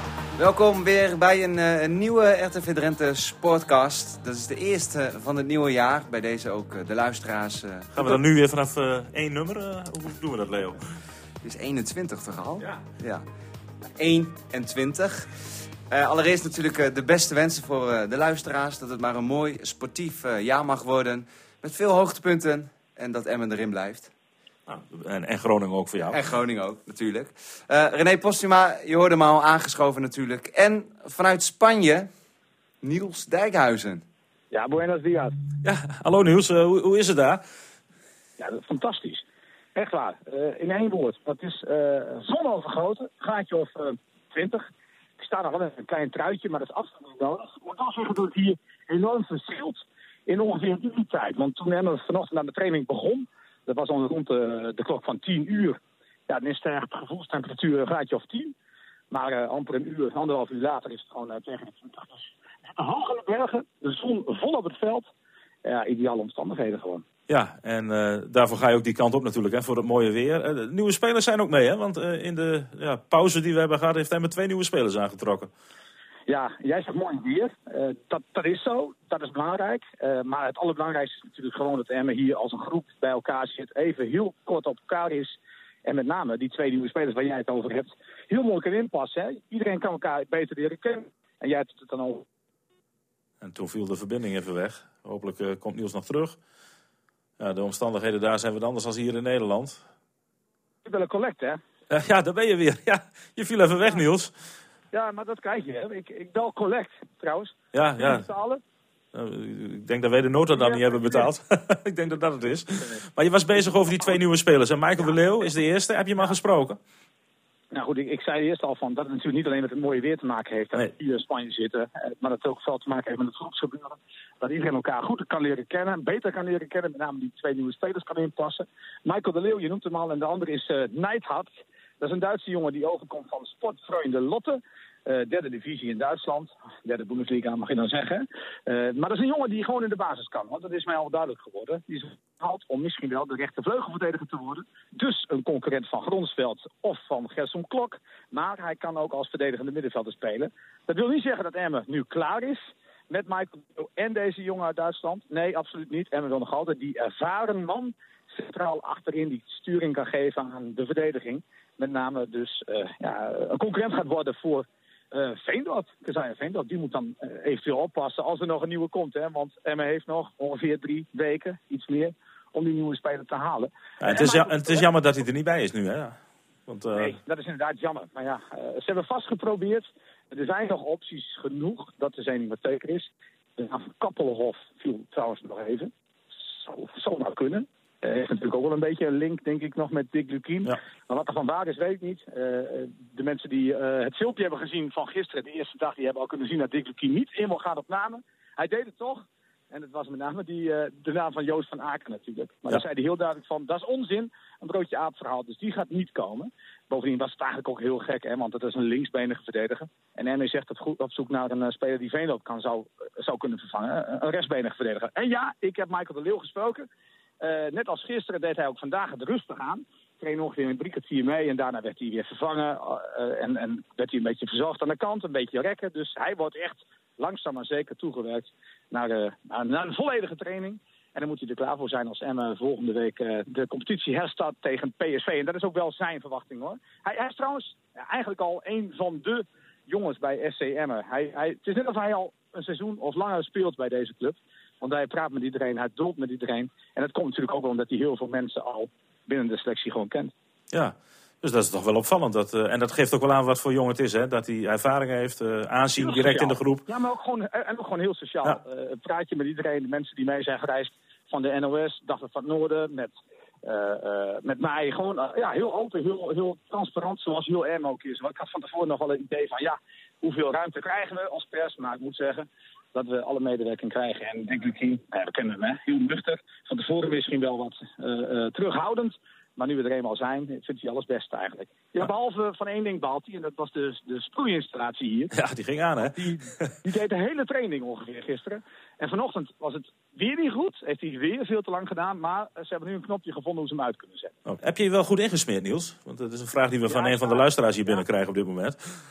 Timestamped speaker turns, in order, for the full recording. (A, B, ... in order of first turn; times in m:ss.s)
0:00.4-0:08.2 A
0:07.9-0:10.8 B
0:11.4-0:13.2 A
0:14.0-0:15.3 A
0:15.9-0:24.1 A
0:24.7-0:26.2 B
0:26.0-0:32.1 A
0:32.8-0:34.0 A
0:34.5-0:35.4 C
0:35.6-0:37.4 B
0:38.4-0:44.6 C
0:45.2-0:58.5 C
0:59.1-1:05.1 C
1:05.6-1:07.0 C
1:07.3-1:15.5 B
1:16.3-1:32.2 C
1:33.4-1:36.4 B
1:37.4-1:39.8 B
1:40.8-1:41.6 C
1:41.9-1:44.3 B
1:44.9-1:48.6 C
1:47.7-1:48.3 B
1:49.1-1:56.8 B
1:50.5-1:51.3 C
1:57.7-2:54.9 C
2:54.0-2:57.2 B
2:56.9-3:05.9 C
3:06.6-3:36.9 C
3:37.4-4:10.3 C
4:10.7-4:16.9 B
4:16.0-4:23.1 C
4:23.6-4:45.3 C
4:45.3-4:46.8 B
4:46.0-4:54.4 C
4:54.5-4:58.8 B
4:56.9-4:58.0 C